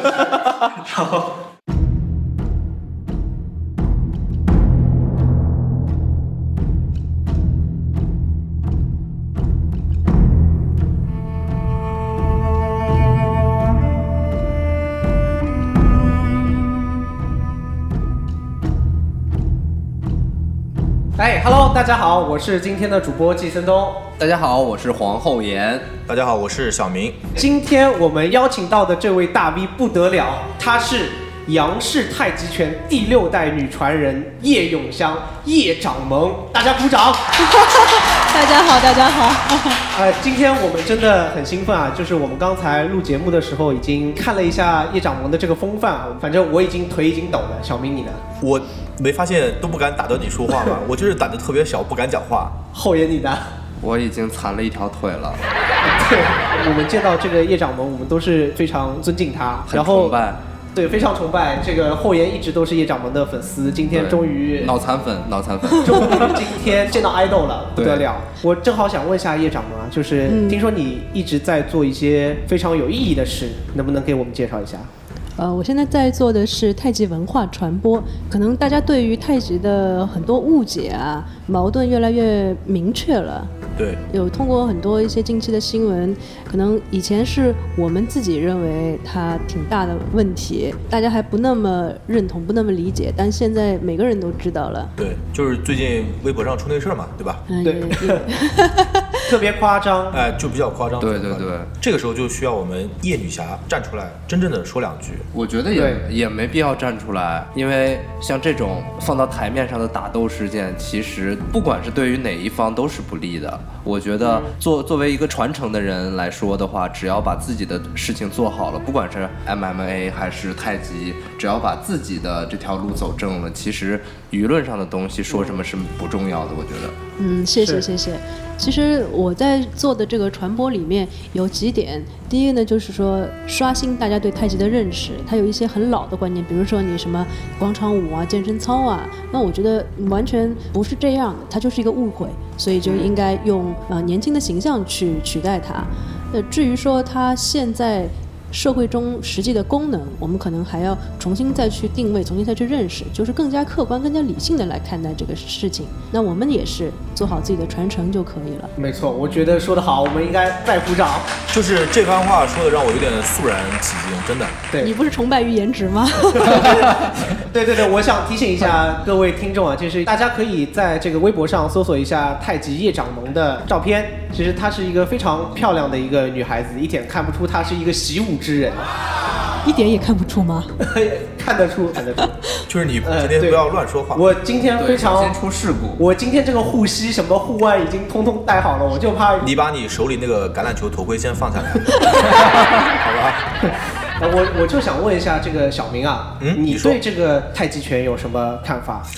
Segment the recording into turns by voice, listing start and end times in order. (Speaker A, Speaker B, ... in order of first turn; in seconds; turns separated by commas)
Speaker A: 0.8-1.3, Speaker A: 21.2-24.0, Speaker B: 24.2-25.9, Speaker C: 26.1-27.2, Speaker A: 27.4-37.2, Speaker D: 37.4-39.9, Speaker A: 39.9-48.2, Speaker C: 48.4-52.6, Speaker A: 52.7-53.5, Speaker B: 53.8-55.4, Speaker A: 55.8-60.2, Speaker B: 59.7-60.4, Speaker A: 60.8-64.8, Speaker B: 63.9-66.5, Speaker A: 65.8-74.9, Speaker B: 67.8-68.1, Speaker D: 70.3-70.6, Speaker D: 75.4-83.5, Speaker C: 83.8-84.0, Speaker D: 84.1-94.9, Speaker C: 95.0-97.4, Speaker D: 97.5-99.3, Speaker A: 97.6-98.3, Speaker A: 99.3-100.2, Speaker C: 100.1-105.2, Speaker B: 101.0-101.7, Speaker B: 105.3-127.0, Speaker A: 105.7-106.0, Speaker A: 114.2-114.5, Speaker A: 125.3-125.6, Speaker D: 127.2-158.7, Speaker A: 127.6-127.9, Speaker A: 142.8-143.1, Speaker A: 158.8-161.3, Speaker C: 161.5-164.6, Speaker D: 164.8-166.8, Speaker A: 166.4-178.9, Speaker D: 179.6-180.7, Speaker A: 180.8-182.4, Speaker C: 182.7-184.2, Speaker A: 183.0-185.4, Speaker B: 184.8-186.0, Speaker A: 186.0-189.5, Speaker C: 189.4-192.1, Speaker C: 192.8-193.4, Speaker A: 194.2-199.1, Speaker C: 196.4-197.0